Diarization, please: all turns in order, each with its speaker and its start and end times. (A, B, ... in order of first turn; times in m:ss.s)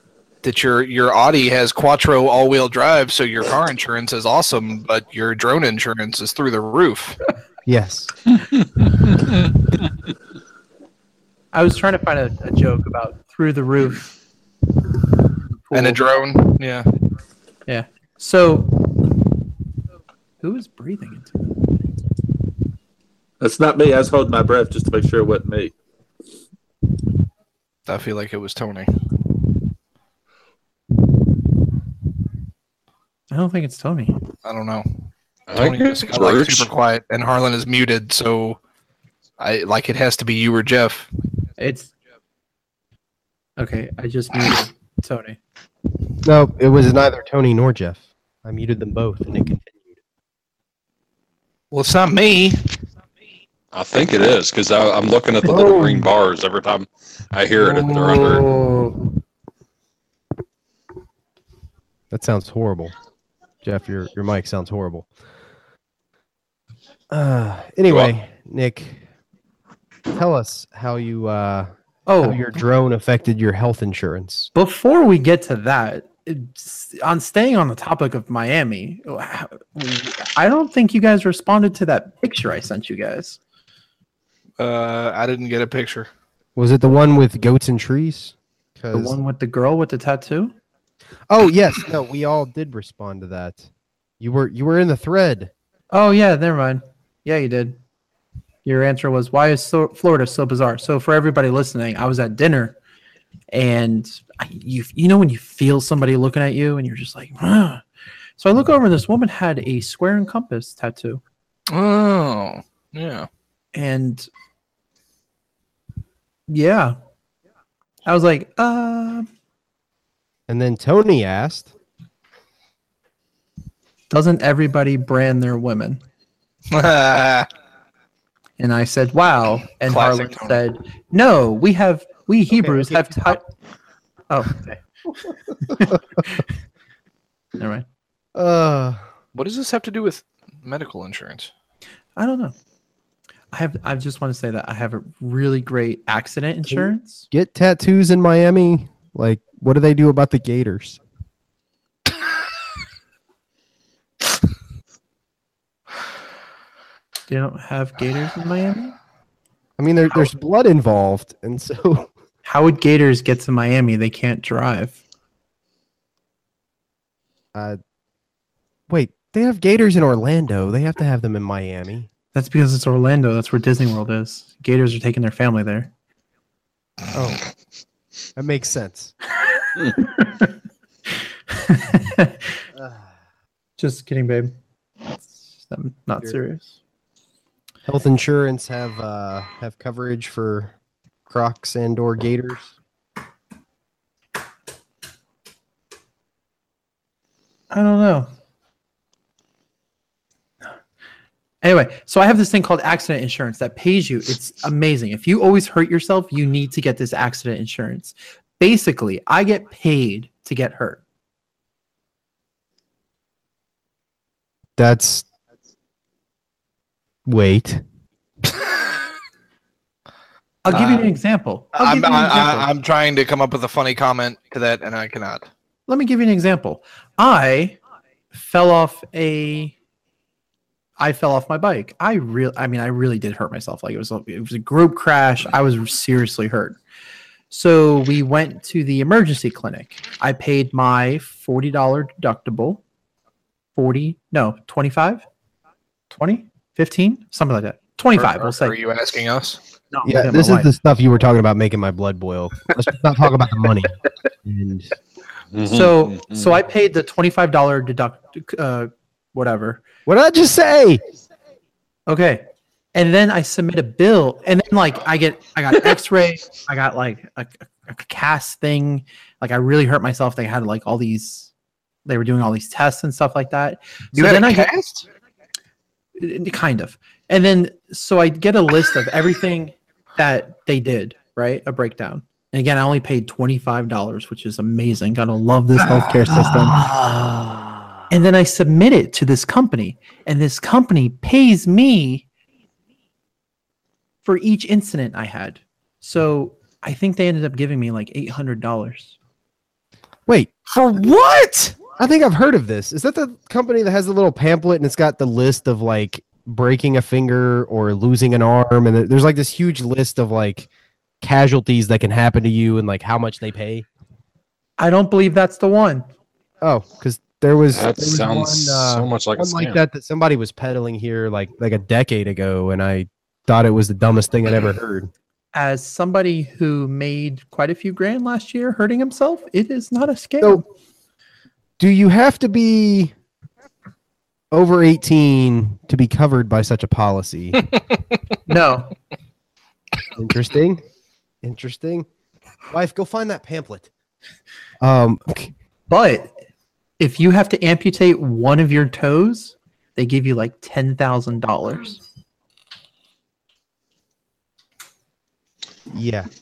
0:00.4-0:07.2 A
0:07.6-0:08.1 B
0:11.5-0:14.1 C
0:15.6-0:16.0 C
0:15.7-0:16.9 A
0:17.7-0:18.7 C
0:20.4-0:21.4 C
0:23.4-0:25.7 D
0:27.9-0:28.9 A
0:33.3-0:34.1 C
0:34.4-0:34.9 A
0:35.5-0:36.7 E
0:35.5-0:38.6 A
0:39.4-0:41.1 A
0:41.6-0:41.9 C
0:43.6-0:45.4 C
0:46.2-0:49.9 B
0:51.7-0:52.6 A
0:53.7-0:58.5 E
0:55.4-0:56.1 B
0:57.6-0:58.9 B
1:02.1-1:02.9 B
1:03.6-1:05.1 B
1:07.1-1:09.0 B
1:07.9-1:08.1 E
1:10.1-1:14.5 B
1:12.1-1:12.4 C
1:14.5-1:23.4 C
1:24.6-1:26.1 A
1:26.6-1:29.2 B
1:28.9-1:30.5 C
1:31.3-1:33.7 B
1:34.2-1:35.5 B
1:35.9-1:37.8 C
1:38.6-1:42.8 C
1:43.5-1:47.8 C
1:48.4-1:51.2 C
1:51.7-1:53.3 A
1:53.7-1:54.3 C
1:56.5-1:57.0 C
1:58.0-1:59.3 C
2:00.5-2:01.7 B
2:04.1-2:06.0 C
2:06.7-2:07.5 A
2:08.6-2:13.4 C
2:09.8-2:10.6 A
2:12.5-2:13.4 B
2:14.3-2:14.9 C
2:15.6-2:16.5 C
2:15.7-2:16.2 B
2:17.6-2:17.8 C
2:18.3-2:19.0 B
2:19.3-2:21.5 A
2:22.2-2:22.5 C
2:23.5-2:27.2 C
2:26.7-2:31.0 B
2:37.3-2:39.0 C
2:39.8-2:42.1 B
2:42.4-2:45.0 C
2:47.5-2:47.8 B
2:48.9-2:52.1 B
2:52.3-2:55.9 C
2:57.1-2:57.4 B
2:58.4-2:59.1 B
3:00.0-3:00.5 C
3:01.5-3:02.5 C
3:02.7-3:03.1 B
3:03.8-3:04.6 C
3:05.6-3:06.7 C
3:07.8-3:10.7 B
3:11.3-3:12.7 B
3:17.7-3:18.3 C
3:21.6-3:31.0 C
3:34.8-3:35.2 B
3:37.2-3:37.8 B
3:40.6-3:42.7 C
3:40.7-3:41.1 A
3:41.7-3:45.5 A
3:45.9-3:47.8 C
3:48.3-3:49.7 C
3:51.0-3:56.8 C
3:57.5-4:02.8 C
4:03.8-4:05.2 C
4:06.1-4:08.8 C
4:08.2-4:09.6 A
4:09.9-4:10.7 C
4:10.0-4:14.9 B
4:15.5-4:16.6 E
4:15.6-4:19.8 C
4:20.0-4:21.0 B
4:22.1-4:31.5 C
4:32.0-4:34.7 C
4:34.1-4:35.0 A
4:36.2-4:46.8 C
4:46.9-4:47.3 B
4:48.1-4:52.2 C
4:54.2-4:59.1 C
5:00.3-5:00.5 B
5:00.7-5:01.7 A
5:01.9-5:10.7 B
5:11.2-5:13.9 B
5:14.8-5:16.1 C
5:16.6-5:25.1 B
5:17.7-5:19.8 E
5:25.5-5:30.6 C
5:31.8-5:33.1 B
5:34.5-5:37.6 B
5:38.5-5:38.9 C
5:40.2-5:40.8 B
5:41.4-5:42.1 B
5:42.7-5:43.9 B
5:44.8-5:45.5 B
5:45.9-5:46.3 C
5:47.0-5:52.0 C
5:55.9-5:56.3 B